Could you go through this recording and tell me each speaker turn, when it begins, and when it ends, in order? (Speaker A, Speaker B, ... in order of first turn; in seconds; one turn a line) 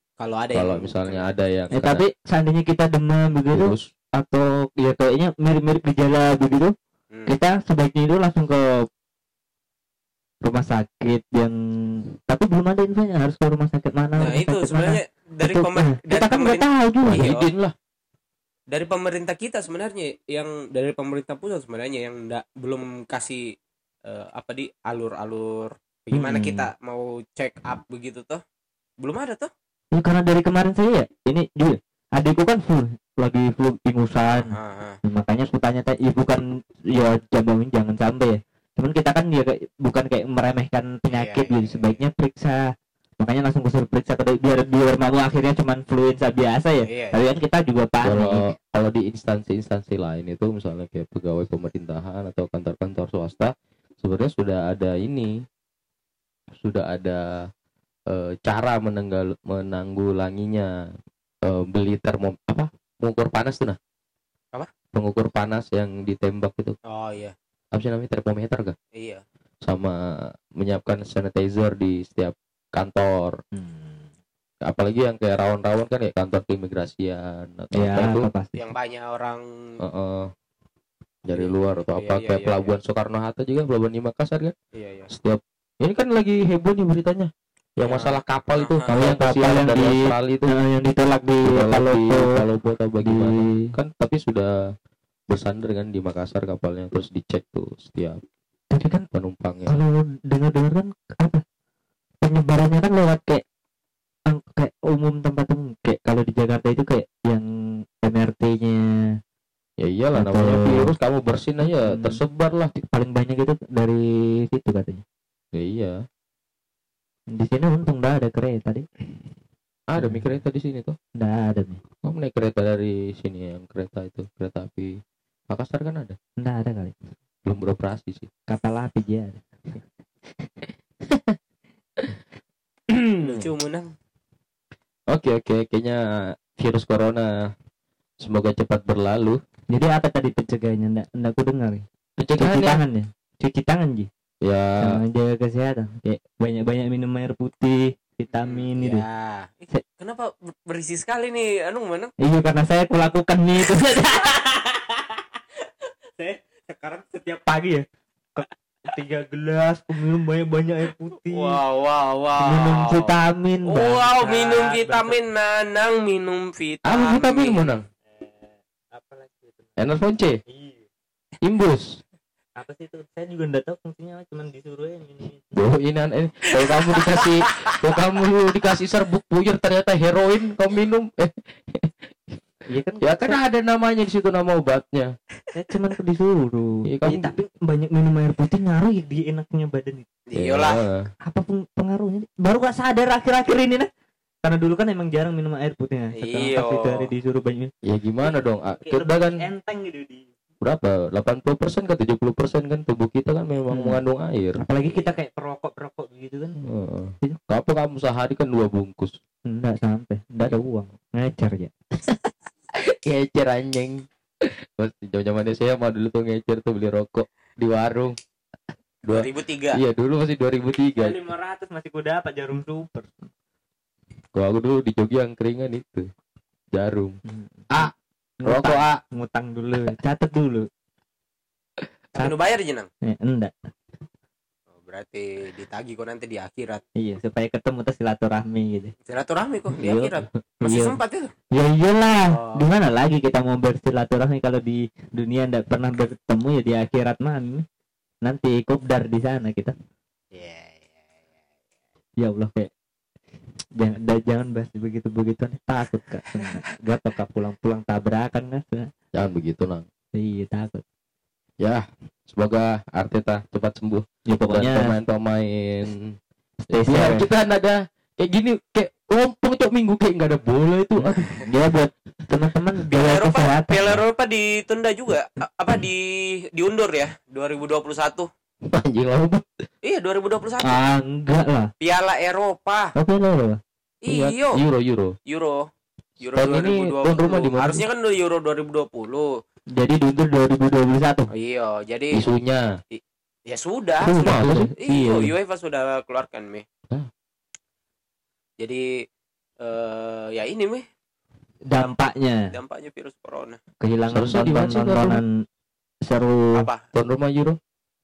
Speaker A: 0.2-1.2
Speaker B: 0.5-2.0
Speaker C: 1.7-6.7
Speaker B: 3.5-3.9
Speaker C: 7.3-8.9
Speaker C: 10.4-17.3
Speaker A: 14.2-17.5
Speaker B: 17.0-17.7
Speaker A: 18.7-23.4
Speaker A: 24.1-28.4
Speaker C: 26.1-26.7
Speaker A: 29.0-29.5
Speaker C: 29.9-42.6
Speaker A: 34.3-35.0
Speaker A: 41.1-42.0
Speaker C: 43.2-48.5
Speaker A: 46.8-47.2
Speaker B: 48.0-55.4
Speaker B: 56.6-57.5
Speaker B: 58.1-60.7
Speaker B: 61.4-63.8
Speaker B: 64.9-66.7
Speaker A: 66.8-67.3
Speaker B: 67.7-68.8
Speaker A: 68.9-69.2
Speaker B: 69.6-73.3
Speaker C: 73.5-74.1
Speaker B: 74.6-78.3
Speaker C: 77.7-78.6
Speaker A: 78.5-79.7
Speaker B: 79.8-80.3
Speaker B: 81.3-84.5
Speaker A: 81.3-82.8
Speaker A: 84.7-85.1
Speaker B: 85.1-90.5
Speaker A: 87.8-88.9
Speaker C: 88.9-92.4
Speaker B: 91.4-94.5
Speaker C: 93.0-93.7
Speaker B: 95.3-98.2
Speaker C: 98.7-99.1
Speaker B: 99.1-99.8
Speaker C: 99.7-101.4
Speaker C: 102.2-103.4
Speaker C: 104.3-107.5
Speaker C: 108.0-109.2
Speaker B: 109.8-112.7
Speaker C: 110.1-110.9
Speaker C: 111.6-112.2
Speaker C: 112.8-115.0
Speaker B: 115.5-116.0
Speaker C: 117.3-118.8
Speaker B: 119.9-121.0
Speaker C: 120.0-120.3
Speaker C: 121.2-121.8
Speaker B: 122.0-124.9
Speaker B: 125.5-126.2
Speaker C: 126.4-126.9
Speaker B: 127.4-128.3
Speaker C: 128.5-129.8
Speaker B: 132.9-133.5
Speaker A: 133.2-133.9
Speaker B: 135.1-137.5
Speaker B: 138.2-139.4
Speaker C: 139.7-141.8
Speaker B: 142.2-142.8
Speaker C: 142.4-144.1
Speaker B: 144.4-145.0
Speaker C: 144.8-149.1
Speaker A: 148.3-152.1
Speaker C: 152.2-155.2
Speaker C: 156.2-161.6
Speaker A: 161.2-167.7
Speaker C: 162.4-165.2
Speaker B: 166.8-167.8
Speaker C: 168.1-169.7
Speaker B: 169.8-170.4
Speaker C: 170.5-170.8
Speaker B: 171.4-172.0
Speaker C: 172.6-175.5
Speaker B: 175.5-182.4
Speaker A: 176.9-177.8
Speaker C: 182.7-183.4
Speaker B: 183.0-185.1
Speaker C: 185.5-190.1
Speaker B: 186.8-187.3
Speaker A: 190.3-190.8
Speaker B: 190.3-191.1
Speaker C: 191.2-193.9
Speaker C: 194.4-197.7
Speaker A: 196.1-197.1
Speaker B: 197.8-199.4
Speaker C: 198.2-200.3
Speaker B: 200.6-204.6
Speaker C: 203.7-204.0
Speaker C: 204.6-206.6
Speaker A: 204.8-205.2
Speaker B: 206.6-209.2
Speaker C: 209.4-211.7
Speaker B: 212.9-218.2
Speaker B: 219.0-221.2
Speaker A: 219.1-219.8
Speaker C: 221.0-223.2
Speaker B: 224.3-226.1
Speaker B: 226.7-227.2
Speaker C: 227.2-227.9
Speaker C: 228.4-230.7
Speaker B: 228.4-229.0
Speaker A: 232.2-232.9
Speaker C: 233.1-233.7
Speaker A: 234.8-236.8
Speaker C: 237.0-238.9
Speaker A: 239.1-241.3
Speaker C: 239.8-241.0
Speaker C: 241.5-247.6
Speaker A: 242.3-242.6
Speaker C: 248.2-249.7
Speaker A: 250.3-251.2
Speaker C: 252.2-252.7
Speaker C: 253.8-258.9
Speaker B: 259.1-259.9
Speaker C: 260.1-260.8
Speaker B: 261.6-266.2
Speaker C: 264.3-264.9
Speaker C: 266.7-267.3
Speaker B: 266.7-271.4
Speaker C: 271.0-274.0
Speaker A: 272.9-278.3
Speaker B: 278.7-279.7
Speaker A: 279.8-280.8
Speaker C: 280.6-281.7
Speaker A: 281.8-282.9
Speaker C: 282.9-283.6
Speaker A: 284.0-284.6
Speaker B: 284.1-285.1
Speaker A: 285.2-285.7
Speaker A: 286.2-289.4
Speaker B: 286.3-287.9
Speaker C: 289.7-291.3
Speaker A: 291.3-292.2
Speaker B: 292.1-292.8
Speaker A: 292.9-296.6
Speaker B: 294.0-295.2
Speaker C: 294.1-295.2
Speaker A: 298.6-298.9
Speaker A: 299.6-300.8
Speaker C: 301.7-302.5
Speaker A: 302.5-303.6
Speaker C: 303.8-305.3
Speaker B: 304.1-305.2
Speaker C: 306.1-306.7
Speaker A: 306.5-306.8
Speaker B: 306.9-307.6